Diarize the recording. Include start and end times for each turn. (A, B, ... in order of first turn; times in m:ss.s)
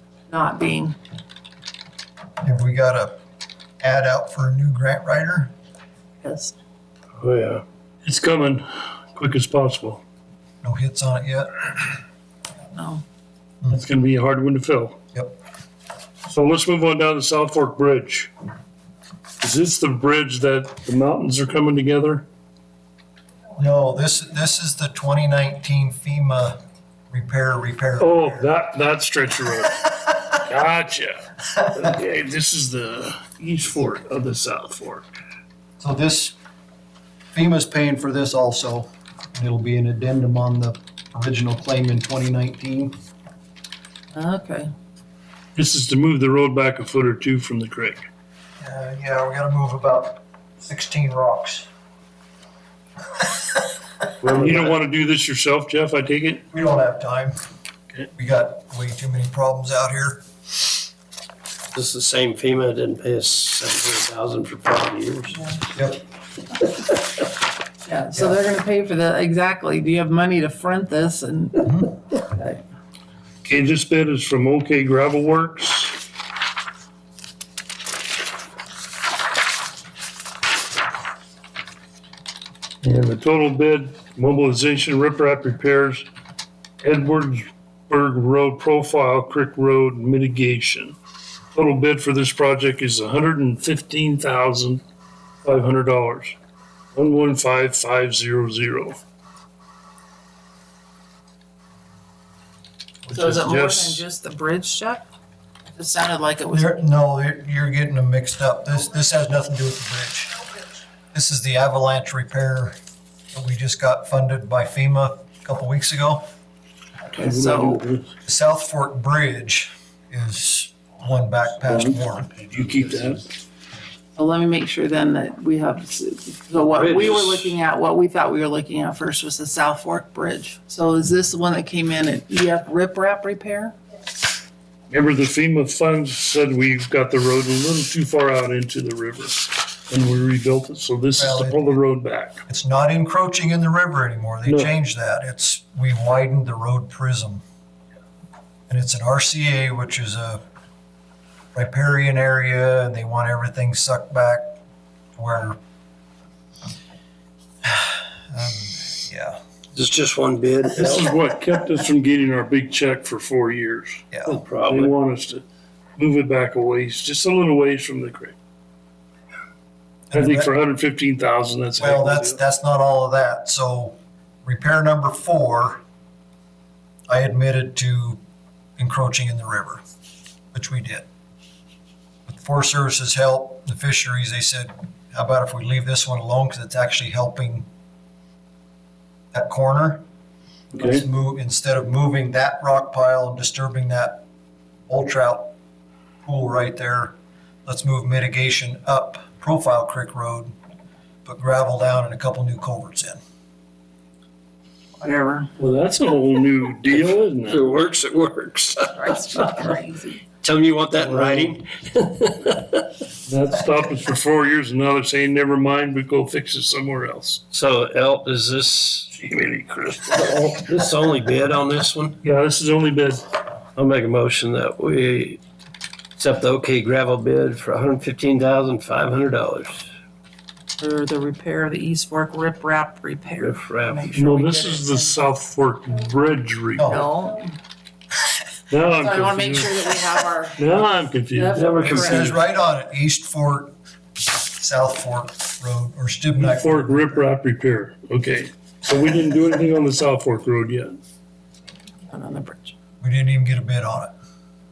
0:00.3-0:01.0 A
0:02.4-0:03.2 B
0:03.8-0:05.5 B
0:06.2-0:06.6 A
0:07.2-0:07.6 C
0:08.0-0:10.0 D
0:10.6-0:11.7 B
0:12.7-0:13.0 A
0:13.7-0:15.0 D
0:16.3-0:18.3 D
0:19.4-0:22.2 D
0:23.6-0:28.5 B
0:28.0-0:35.1 D
0:35.8-0:36.4 B
0:37.3-0:43.0 B
0:44.1-0:44.7 A
0:45.6-0:48.0 D
0:48.6-0:51.7 B
0:54.2-0:56.4 D
0:54.3-0:54.7 C
0:54.4-0:54.7 B
0:56.5-0:57.4 B
0:58.1-1:00.3 B
1:01.7-1:05.4 C
1:05.3-1:05.6 A
1:05.7-1:06.0 B
1:07.8-1:12.6 A
1:13.4-1:16.0 D
1:22.8-1:26.1 D
1:26.8-1:31.0 D
1:31.5-1:34.8 D
1:35.4-1:36.4 D
1:36.9-1:39.0 D
1:43.1-1:44.0 D
1:43.1-1:45.1 A
1:45.8-1:46.8 A
1:46.5-1:50.4 B
1:51.1-1:52.8 B
1:53.3-1:56.3 B
1:57.1-1:57.8 A
1:57.1-1:58.1 D
1:58.3-2:02.3 B
2:01.6-2:02.0 D
2:02.3-2:03.2 C
2:02.5-2:03.2 D
2:04.2-2:13.8 A
2:06.7-2:07.6 C
2:14.9-2:22.4 D
2:21.2-2:21.8 B
2:22.5-2:27.4 B
2:24.5-2:24.7 D
2:28.7-2:30.4 B
2:31.5-2:34.5 B
2:35.2-2:35.6 B
2:37.6-2:39.4 B
2:39.8-2:41.1 C
2:40.8-2:45.4 D
2:44.1-2:44.4 B
2:44.3-2:44.9 C
2:46.0-2:48.4 D
2:50.1-2:50.5 B
2:50.1-2:52.4 D
2:51.8-2:55.8 B
2:57.1-2:58.2 B
2:58.8-2:59.8 B
3:00.5-3:01.1 B
3:02.3-3:07.7 B
3:09.3-3:10.0 B
3:10.7-3:11.0 D
3:10.8-3:14.2 B
3:14.9-3:15.5 B
3:16.2-3:17.1 B
3:17.7-3:20.5 B
3:21.2-3:23.2 B
3:25.0-3:25.5 A
3:25.6-3:27.6 D
3:26.9-3:29.6 C
3:28.9-3:30.2 A
3:30.4-3:32.8 C
3:30.9-3:31.6 D
3:33.3-3:37.4 D
3:37.5-3:39.3 C
3:39.1-3:40.0 D
3:40.0-3:42.2 C
3:42.2-3:43.2 D
3:43.8-3:45.4 C
3:46.2-3:49.9 C
3:50.8-3:55.2 A
3:53.4-3:54.1 C
3:54.1-3:57.0 D
3:56.8-3:57.0 B
3:56.9-3:57.5 A
3:58.7-3:59.8 D
3:58.9-4:02.4 A
4:00.6-4:01.6 D
4:01.5-4:02.4 C
4:01.8-4:03.8 B
4:04.6-4:07.2 B
4:06.4-4:11.0 D
4:12.1-4:12.7 A
4:13.0-4:14.1 B